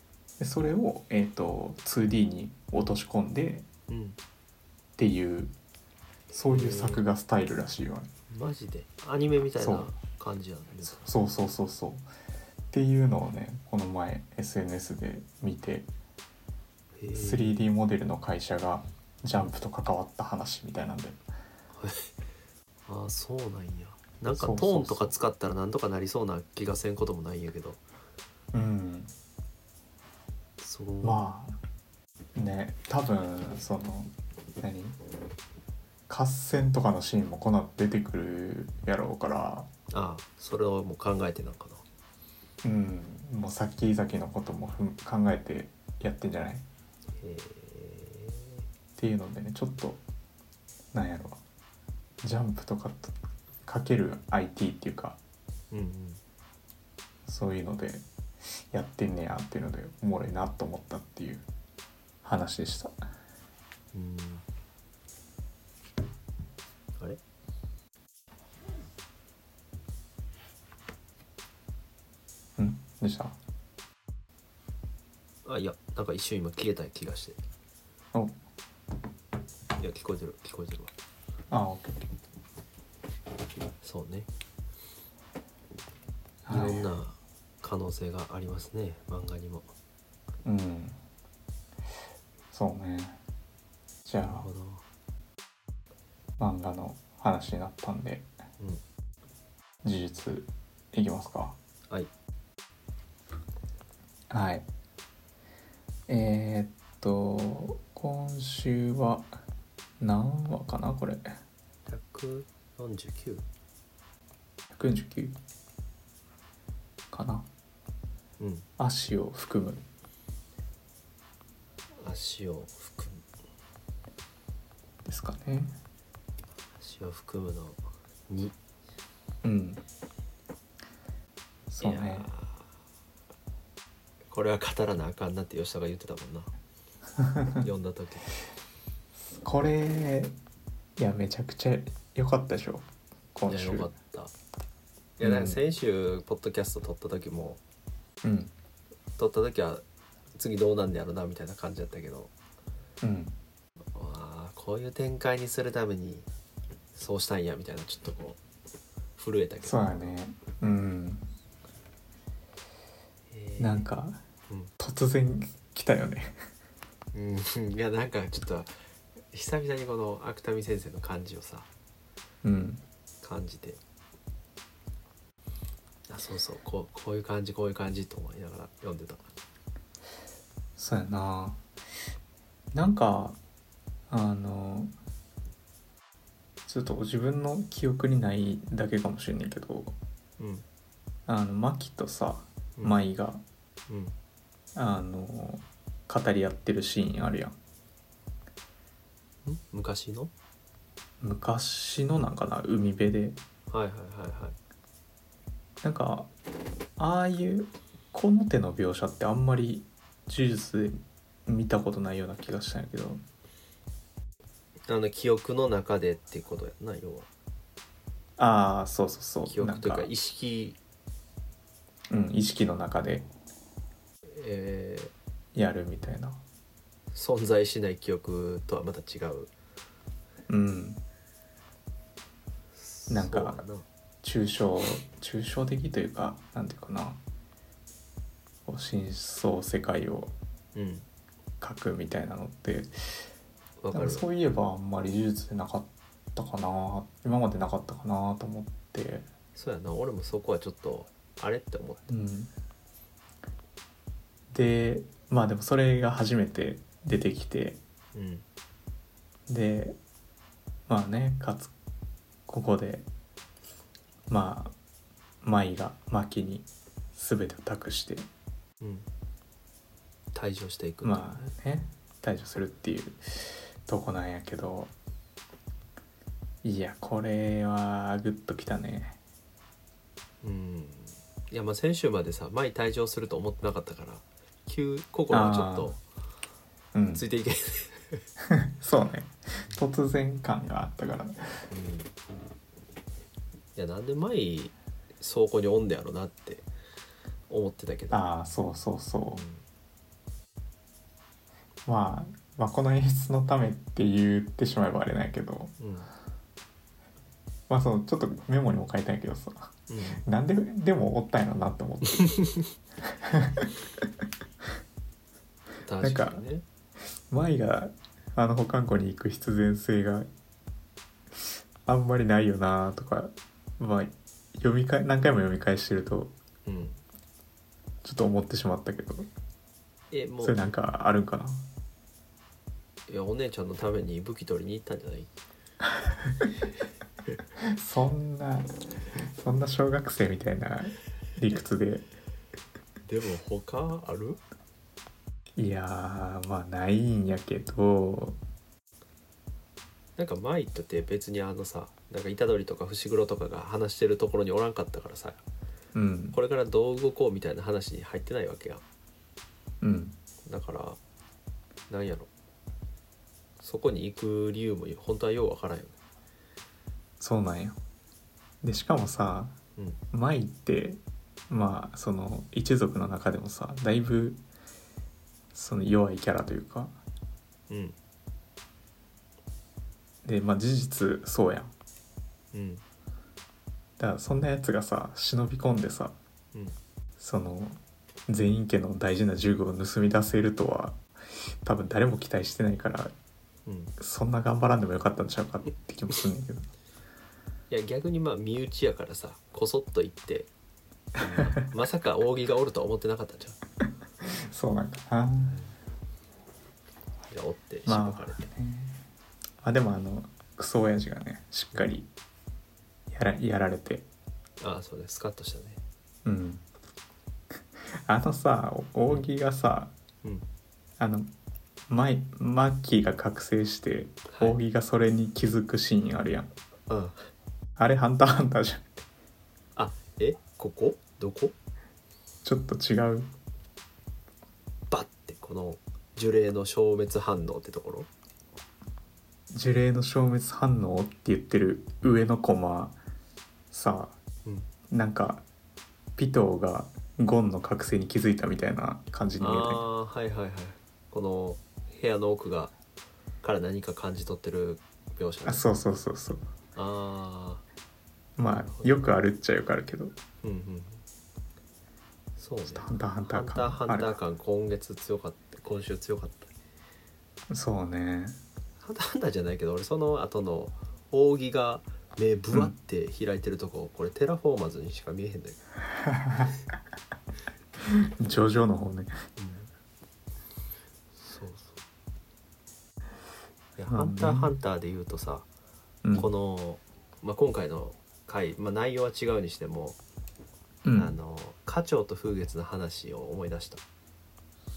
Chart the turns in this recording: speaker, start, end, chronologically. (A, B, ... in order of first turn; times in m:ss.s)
0:00.4-0:03.7 A
0:03.9-0:04.2 B
0:05.0-0:05.6 A
0:06.3-0:08.1 A
0:06.4-0:07.0 B
0:08.3-0:11.1 B
0:09.6-0:09.9 A
0:10.8-0:12.1 A
0:12.7-0:15.9 A
0:17.0-0:17.7 B
0:17.1-0:21.2 A
0:21.7-0:22.1 B
0:22.9-0:27.8 B
0:24.3-0:25.1 A
0:28.5-0:29.1 A
0:30.6-0:31.2 B
0:31.0-0:31.6 A
0:32.4-0:35.0 A
0:36.1-0:39.7 A
0:39.9-0:41.8 B
0:42.6-0:46.7 A
0:47.2-0:48.6 B
0:49.0-0:50.0 A
0:50.9-0:51.4 A
0:52.2-0:55.2 A
0:55.7-0:56.2 B
0:57.3-0:58.1 A
0:58.7-1:01.5 A
1:02.2-1:03.0 A
1:03.9-1:04.4 B
1:12.6-1:13.4 A
1:15.4-1:17.4 B
1:19.8-1:20.9 B
1:21.5-1:22.1 A
1:23.8-1:24.3 B
1:26.5-1:26.9 A
1:26.5-1:29.7 B
1:30.4-1:31.0 A
1:32.5-1:33.2 A
1:34.1-1:34.5 A
1:34.2-1:34.8 B
1:36.4-1:38.3 A
1:39.8-1:41.6 A
1:44.3-1:44.7 A
1:46.1-1:49.4 A
1:50.0-1:51.3 A
1:51.9-1:53.5 B
1:54.7-1:55.4 A
1:57.1-1:57.5 A
1:58.4-1:58.7 B
1:58.8-1:59.8 A
2:02.0-2:03.2 B
2:05.0-2:05.8 A
2:06.8-2:08.6 B
2:09.4-2:09.8 A
2:11.7-2:12.3 A
2:11.8-2:12.7 B
2:14.3-2:16.5 B
2:17.2-2:17.6 A
2:17.6-2:18.3 B
2:19.2-2:20.4 A
2:21.0-2:23.9 A
2:23.5-2:24.3 B
2:25.2-2:27.6 B
2:25.2-2:25.6 A
2:28.2-2:28.5 A
2:29.2-2:29.8 B
2:30.4-2:32.3 B
2:33.0-2:33.4 A
2:33.9-2:36.3 B
2:36.9-2:38.4 B
2:39.2-2:40.2 B
2:39.6-2:41.3 A
2:43.3-2:43.9 B
2:43.6-2:44.2 A
2:44.8-2:46.4 A
2:47.1-2:48.7 B
2:49.3-2:51.7 B
2:52.4-2:52.8 A
2:53.2-2:53.8 B
2:56.1-2:59.4 B
3:00.8-3:01.6 A
3:02.7-3:03.4 A
3:04.1-3:05.0 A
3:06.7-3:10.0 A
3:10.4-3:10.6 B
3:11.3-3:13.4 A
3:13.9-3:14.2 B
3:14.8-3:17.6 A
3:19.4-3:20.3 B
3:21.2-3:23.4 A
3:23.7-3:24.6 B
3:25.8-3:26.3 A
3:27.0-3:33.2 A
3:34.9-3:37.3 B
3:38.4-3:40.1 A
3:39.5-3:40.8 B
3:42.1-3:43.3 A
3:44.3-3:45.1 B
3:45.5-3:46.4 A
3:47.1-3:49.5 B
3:50.5-3:51.0 A
3:52.7-3:53.9 B
3:53.1-3:53.6 A
3:54.2-3:57.2 A
3:58.7-4:00.3 A
4:00.8-4:01.1 B
4:01.6-4:03.2 A
4:03.8-4:04.3 B
4:03.9-4:09.3 A
4:09.6-4:12.1 B
4:12.1-4:12.5 A
4:14.5-4:17.8 A
4:18.1-4:18.4 B
4:19.5-4:20.0 A
4:20.9-4:21.7 A
4:22.5-4:23.1 A
4:24.3-4:24.8 A
4:25.4-4:28.3 A
4:28.8-4:29.1 B
4:30.3-4:31.5 B
4:31.0-4:34.9 A
4:36.6-4:39.2 A
4:40.4-4:46.0 B
4:45.3-4:45.9 A
4:46.9-4:47.2 A
4:47.1-4:48.2 B
4:48.5-4:51.4 A
4:51.7-4:52.2 B
4:53.8-4:56.7 B
4:57.5-4:58.2 B
4:58.1-4:59.4 A
4:59.3-4:59.6 B
5:01.9-5:05.8 A
5:05.8-5:06.1 B
5:07.7-5:12.4 A
5:09.9-5:10.2 B
5:12.2-5:12.7 B
5:13.1-5:14.1 A
5:15.8-5:16.6 B
5:16.0-5:16.4 A
5:17.3-5:20.3 A
5:21.9-5:26.3 A
5:26.7-5:27.0 B
5:28.0-5:29.3 A
5:30.1-5:30.6 B
5:30.4-5:31.7 A
5:33.1-5:35.3 B
5:37.6-5:42.1 A
5:43.1-5:44.4 B
5:45.6-5:48.4 A
5:50.2-5:55.4 B
5:55.9-5:56.4 A
5:56.3-5:58.8 B
5:59.8-6:00.2 A
6:00.4-6:01.0 B
6:01.9-6:02.3 B
6:03.6-6:06.0 B
6:07.2-6:07.8 A
6:08.6-6:09.6 A
6:10.1-6:14.4 A
6:15.5-6:17.0 A
6:17.7-6:18.0 B
6:20.2-6:21.7 A
6:22.5-6:22.8 B
6:24.0-6:26.2 A
6:27.2-6:31.0 A
6:31.6-6:33.1 A
6:33.7-6:33.9 B
6:34.0-6:36.7 A
6:37.7-6:40.5 B
6:41.2-6:43.6 B
6:44.4-6:45.6 A
6:45.4-6:45.8 B
6:47.3-6:48.5 B
6:47.9-6:49.0 A
6:49.6-6:52.1 A
6:53.1-6:54.1 A
6:54.6-6:55.8 B
6:56.2-6:56.6 A
6:57.8-6:59.9 A
7:01.0-7:01.3 A
7:01.9-7:06.5 A
7:04.3-7:04.6 B
7:06.9-7:07.3 B
7:07.8-7:09.1 A
7:09.8-7:11.6 B
7:12.4-7:13.3 A
7:14.9-7:18.1 B
7:19.5-7:23.0 A
7:23.7-7:24.2 A
7:24.9-7:25.4 A
7:26.2-7:29.8 A
7:29.4-7:32.7 B
7:33.4-7:35.6 B
7:35.4-7:36.5 A
7:36.8-7:37.6 B
7:38.4-7:40.2 A
7:38.4-7:39.0 B
7:40.4-7:41.0 B
7:42.4-7:46.5 B
7:42.6-7:44.2 A
7:47.5-7:48.4 A
7:48.8-7:55.6 B
7:56.2-7:56.5 A
7:57.9-7:59.2 A
7:59.4-7:59.7 B
8:01.2-8:01.8 B
8:03.8-8:05.5 B
8:03.9-8:04.6 A
8:06.2-8:10.0 B
8:10.8-8:11.2 A
8:11.0-8:13.8 B